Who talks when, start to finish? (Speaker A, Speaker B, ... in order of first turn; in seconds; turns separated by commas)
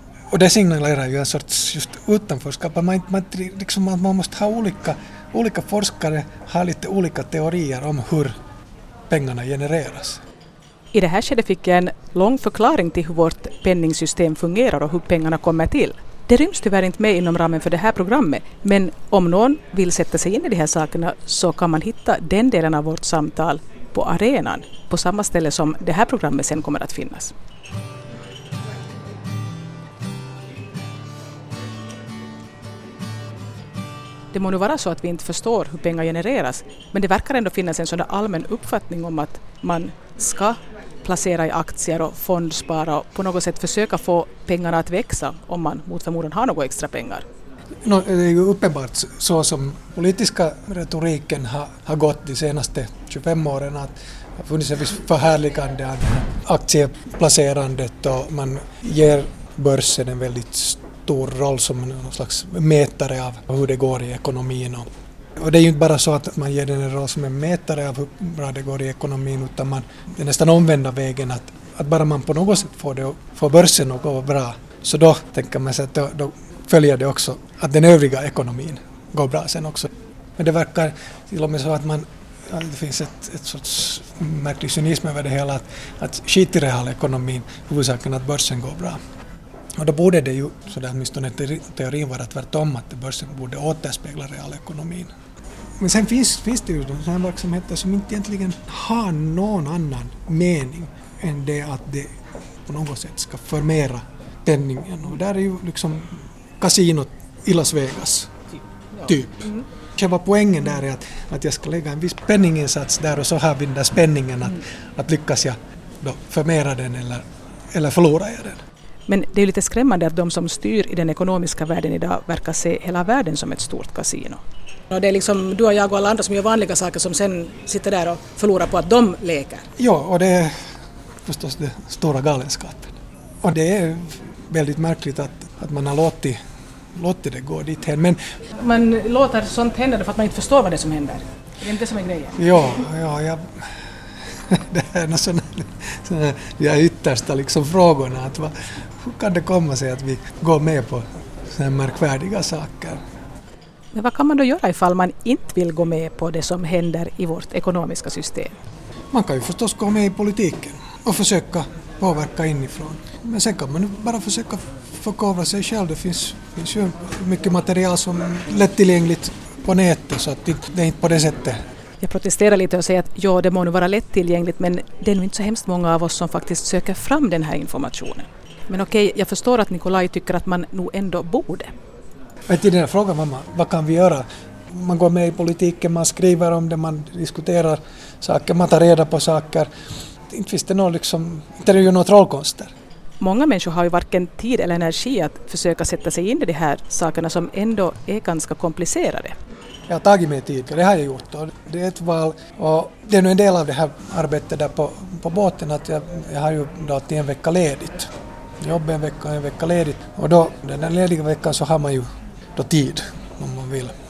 Speaker A: 0.3-8.4, Speaker A: 9.1-10.2, Speaker B: 10.9-27.3, Speaker B: 34.3-47.3, Speaker A: 47.9-89.0, Speaker A: 89.8-95.1, Speaker A: 95.8-108.4, Speaker B: 108.9-109.6, Speaker A: 109.0-118.7, Speaker B: 119.1-129.7, Speaker A: 129.8-136.4, Speaker A: 136.9-138.4, Speaker B: 138.5-142.5, Speaker A: 142.3-153.0, Speaker B: 153.9-158.6, Speaker A: 159.1-171.6, Speaker B: 172.0-181.7, Speaker A: 182.5-189.7, Speaker A: 190.3-192.7, Speaker B: 193.2-199.3, Speaker A: 199.9-213.9